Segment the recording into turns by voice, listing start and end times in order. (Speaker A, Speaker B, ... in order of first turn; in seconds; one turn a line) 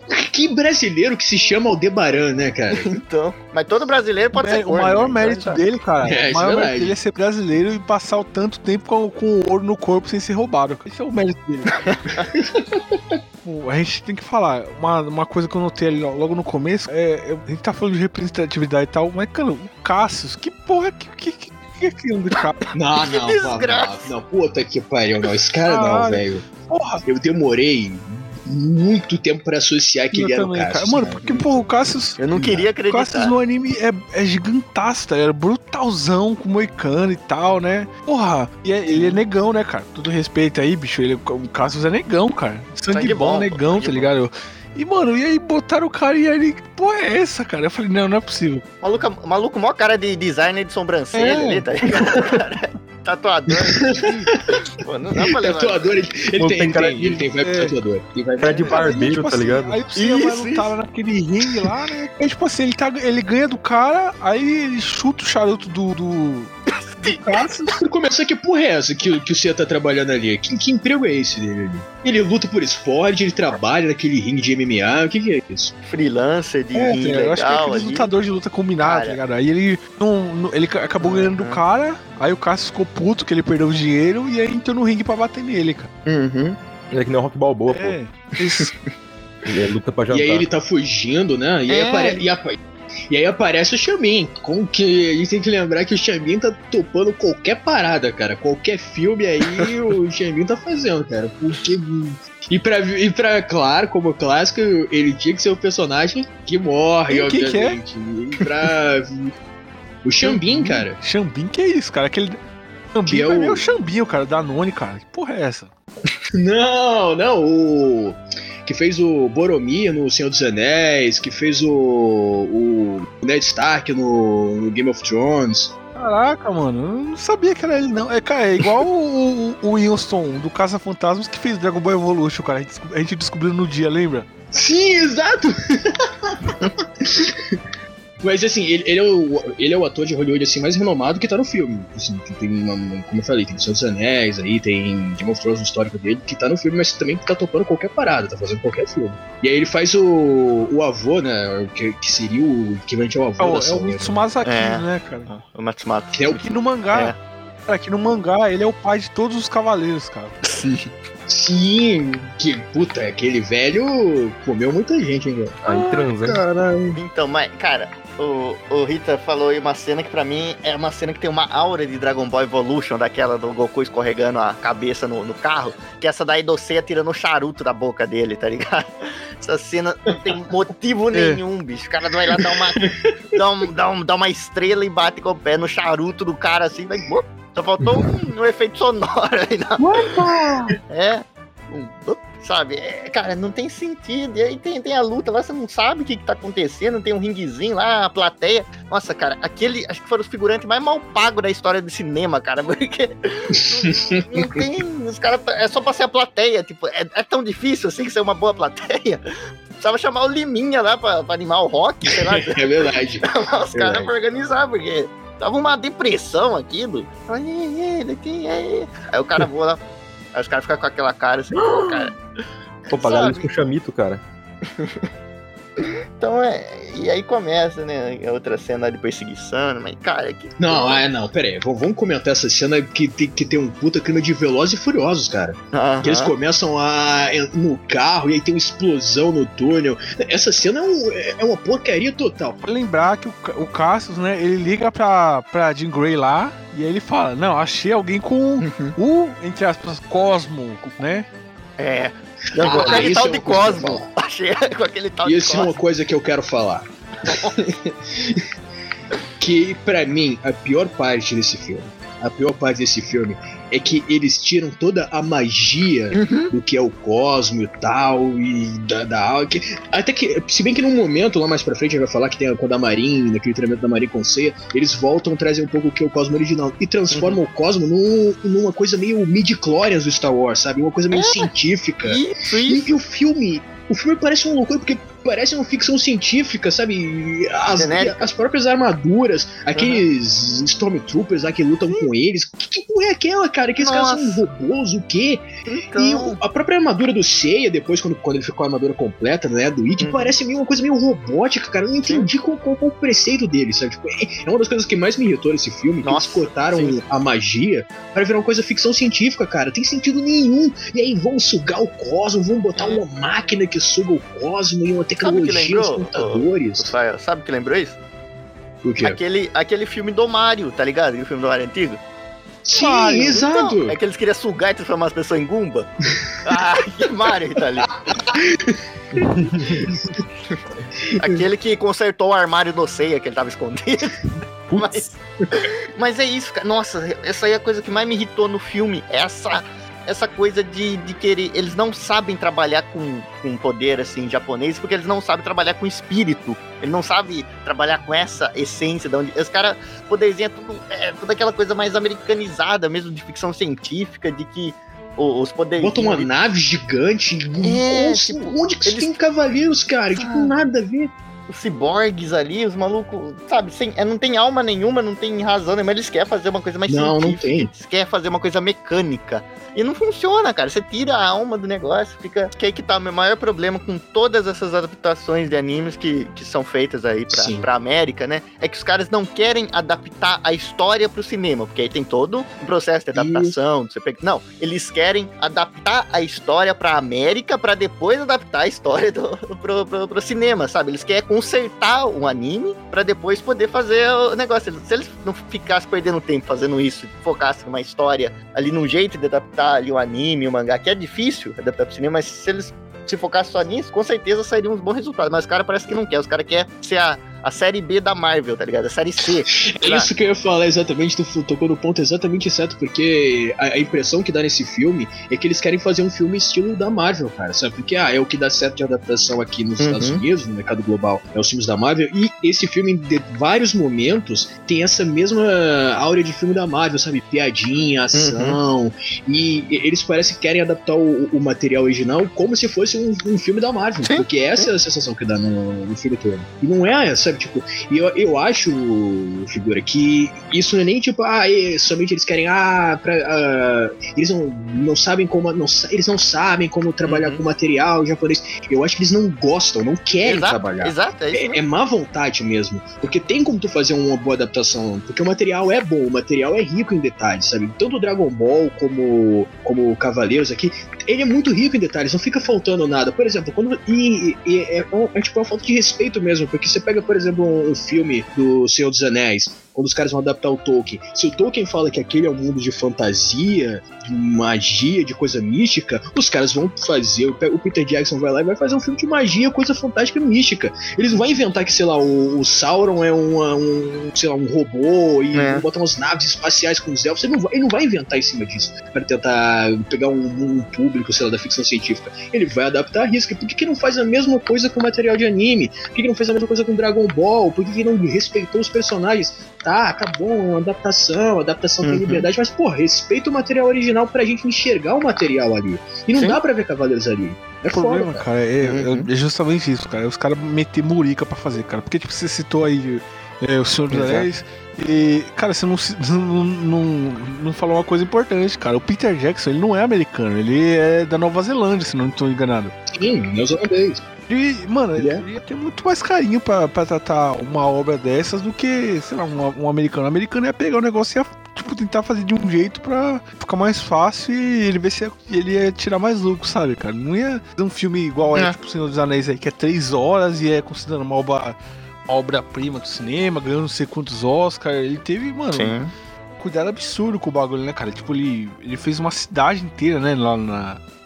Speaker A: 0.1-2.9
Speaker B: 2.7-5.6
Speaker C: 4.3-11.8
Speaker A: 6.0-7.0
Speaker B: 11.7-12.3
Speaker A: 12.3-13.2
Speaker C: 13.4-22.7
Speaker A: 22.7-26.4
Speaker B: 23.0-24.1
Speaker C: 25.7-27.0
Speaker A: 27.1-31.2
Speaker C: 30.1-48.6
Speaker B: 31.0-31.5
Speaker B: 32.2-33.4
Speaker B: 38.9-39.2
Speaker B: 42.9-44.1
Speaker B: 48.8-55.9
Speaker C: 51.1-51.7
Speaker A: 53.5-54.6
Speaker A: 55.2-58.9
Speaker D: 56.4-57.2
Speaker C: 57.4-57.8
Speaker D: 58.4-59.8
Speaker B: 58.4-58.8
Speaker C: 58.7-67.8
Speaker B: 60.0-60.7
Speaker B: 66.8-67.2
Speaker A: 67.7-75.8
Speaker B: 75.9-78.2
Speaker C: 76.7-85.9
Speaker B: 78.8-79.2
Speaker B: 81.0-81.6
Speaker B: 86.1-86.6
Speaker D: 86.9-88.0
Speaker C: 87.7-88.7
Speaker B: 88.5-88.9
Speaker D: 89.5-90.5
Speaker A: 90.1-92.6
Speaker B: 91.7-92.2
Speaker A: 93.1-109.3
Speaker C: 107.1-107.8
Speaker A: 110.0-111.0
Speaker C: 110.2-112.4
Speaker C: 112.9-115.7
Speaker A: 113.1-113.7
Speaker A: 116.3-125.7
Speaker C: 126.0-134.3
Speaker A: 134.5-137.6
Speaker A: 138.2-154.2
Speaker C: 153.4-155.3
Speaker B: 154.4-156.4
Speaker A: 156.1-156.4
Speaker C: 156.3-157.2
Speaker B: 156.9-157.2
Speaker C: 157.7-160.3
Speaker B: 160.4-160.9
Speaker A: 161.3-167.0
Speaker D: 165.6-166.4
Speaker B: 166.9-190.1
Speaker C: 181.1-181.4
Speaker A: 182.3-183.0
Speaker A: 187.8-188.1
Speaker A: 189.8-190.8
Speaker B: 190.9-209.2
Speaker A: 203.7-204.5
Speaker B: 209.8-212.6
Speaker A: 212.1-214.1
Speaker B: 213.2-219.8
Speaker B: 220.3-222.2
Speaker A: 221.7-222.0
Speaker B: 222.9-223.5
Speaker D: 222.9-224.2
Speaker B: 224.8-225.1
Speaker B: 225.8-231.0
Speaker A: 230.6-242.6
Speaker B: 235.7-236.3
Speaker C: 242.6-251.3
Speaker B: 248.6-248.9
Speaker B: 251.8-255.8
Speaker A: 252.5-254.1
Speaker D: 252.7-253.1
Speaker A: 255.2-258.4
Speaker B: 257.3-257.6
Speaker A: 259.4-295.4
Speaker B: 266.1-266.5
Speaker B: 277.1-277.4
Speaker B: 281.1-281.5
Speaker B: 282.0-282.9
Speaker B: 287.8-288.3
Speaker B: 289.7-290.0
Speaker B: 293.8-294.4
Speaker B: 295.7-296.4
Speaker A: 296.0-316.9
Speaker B: 300.0-300.3
Speaker B: 306.0-307.0
Speaker B: 312.8-313.0
Speaker B: 315.2-318.0
Speaker A: 318.8-319.2
Speaker B: 319.0-322.0
Speaker A: 322.6-323.9
Speaker B: 322.8-325.9
Speaker B: 326.4-328.0
Speaker A: 327.8-330.2
Speaker A: 331.1-331.4
Speaker B: 331.2-356.3
Speaker D: 334.7-335.1
Speaker A: 355.8-361.1
Speaker B: 357.6-359.1
Speaker B: 360.1-360.6
Speaker B: 361.5-410.1
Speaker A: 366.9-367.7
Speaker A: 377.3-377.7
Speaker A: 383.1-383.6
Speaker A: 409.7-508.2
Speaker B: 419.8-420.2
Speaker B: 428.1-428.6
Speaker B: 434.0-434.7
Speaker B: 447.1-447.4
Speaker B: 450.2-451.6
Speaker B: 485.3-485.6
Speaker B: 501.8-502.3
Speaker B: 506.1-506.4
Speaker C: 507.7-522.8
Speaker B: 508.6-509.1
Speaker B: 513.9-514.2
Speaker A: 522.9-524.0
Speaker C: 524.3-545.8
Speaker A: 525.0-525.2
Speaker B: 545.5-545.9
Speaker C: 546.4-550.8